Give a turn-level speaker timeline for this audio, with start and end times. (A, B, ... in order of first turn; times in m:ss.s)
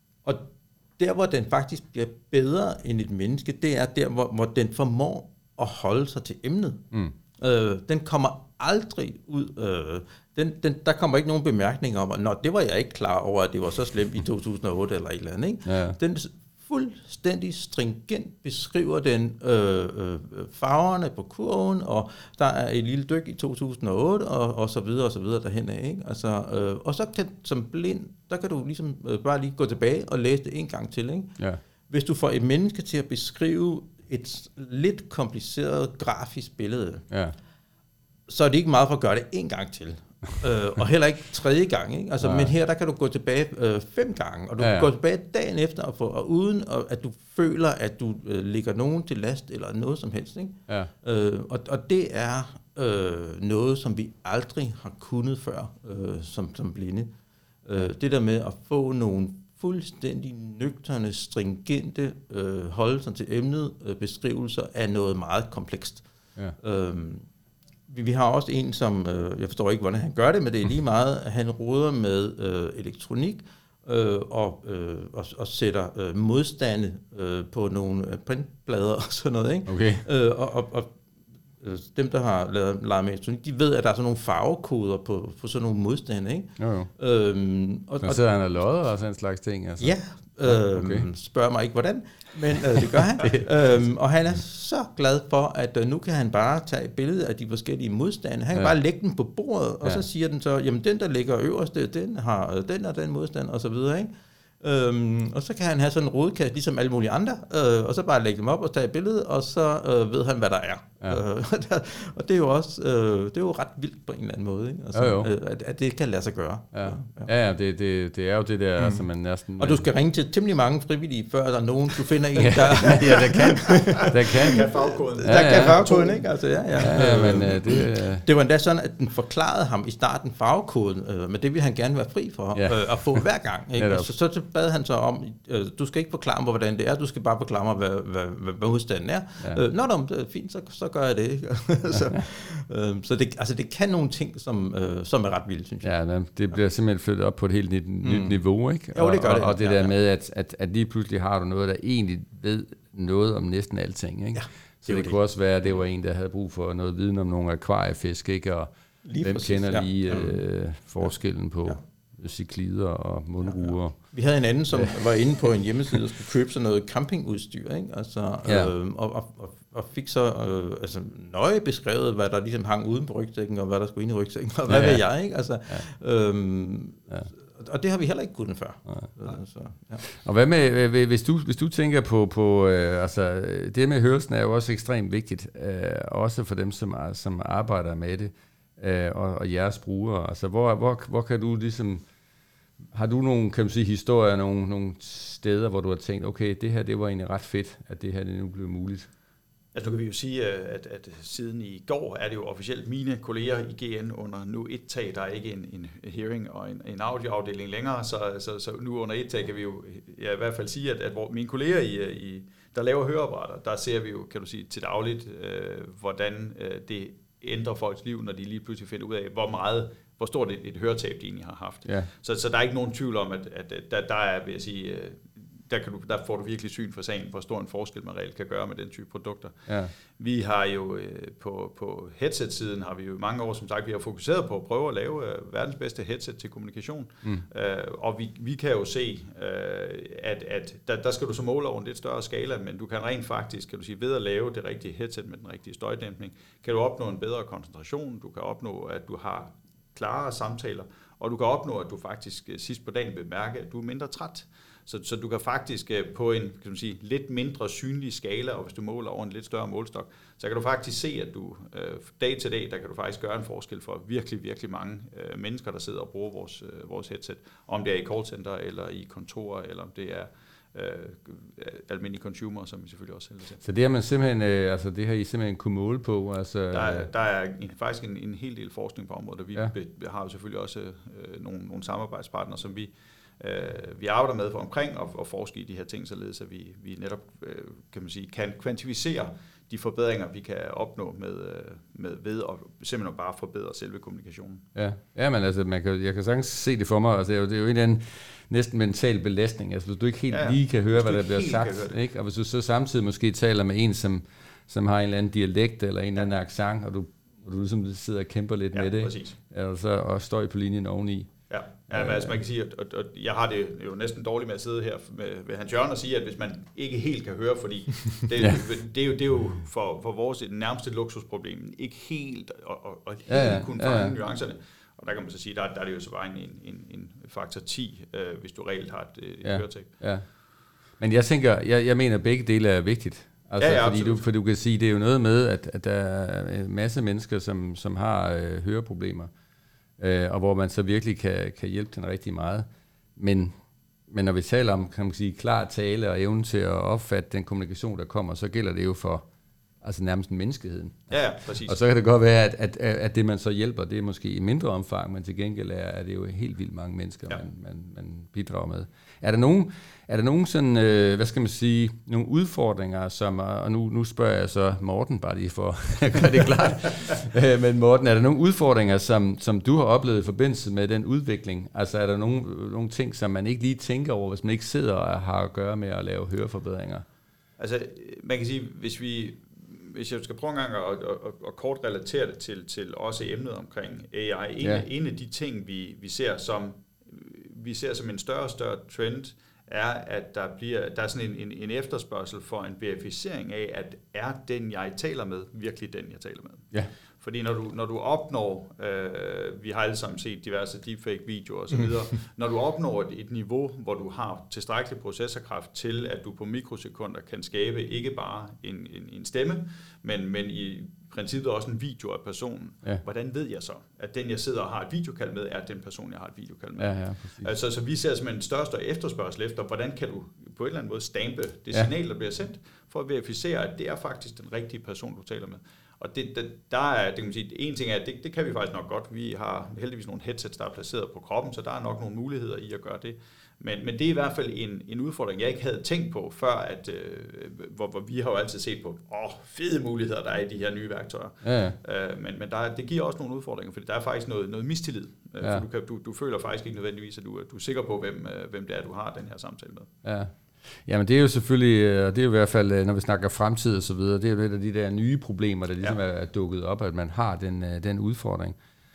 0:00.2-0:06.8 A
0:07.4-0:31.4 A
0:15.7-0:16.0 B
0:31.9-0:37.1 A
0:37.1-0:37.4 B
0:38.3-0:57.1 A
0:42.2-0:42.5 B
0:44.6-0:44.9 B
0:57.6-1:06.0 A
1:06.6-1:07.3 A
1:07.9-1:21.0 A
1:19.7-1:20.0 B
1:21.6-1:28.2 A
1:26.6-1:26.9 B
1:28.0-1:31.1 B
1:29.8-1:57.3 A
1:33.0-1:33.5 B
1:55.0-1:55.3 B
1:56.7-1:59.9 B
1:59.6-2:25.9 A
2:02.4-2:04.7 B
2:04.0-2:06.3 C
2:05.2-2:05.8 B
2:06.8-2:08.2 B
2:12.6-2:13.2 B
2:13.8-2:14.1 B
2:25.8-2:38.7 B
2:28.0-2:28.4 A
2:28.9-2:29.9 A
2:34.3-2:35.2 A
2:39.0-2:40.4 A
2:39.2-2:44.1 B
2:43.5-3:00.0 A
2:48.4-2:48.7 B
2:54.7-2:55.0 B
3:00.0-3:12.0 B
3:12.9-3:19.1 B
3:19.7-3:49.6 C
3:49.7-3:49.9 B
3:50.2-4:33.6 C
4:33.6-4:37.1 B
4:36.7-4:54.6 C
4:54.8-5:11.3 B
5:00.3-5:02.0 C
5:08.7-5:09.4 C
5:11.5-5:29.9 C
5:11.9-5:12.4 B
5:23.3-5:24.2 B
5:29.4-5:30.2 B
5:31.0-5:39.3 B
5:33.6-5:34.3 C
5:40.0-5:43.5 B
5:44.1-5:49.3 B
5:49.8-6:17.0 B
5:51.1-5:51.8 C
6:17.6-6:36.7 C
6:37.2-7:29.9 C
6:56.8-6:57.5 B
7:21.4-7:21.8 B
7:30.0-7:30.3 B
7:30.8-7:38.6 B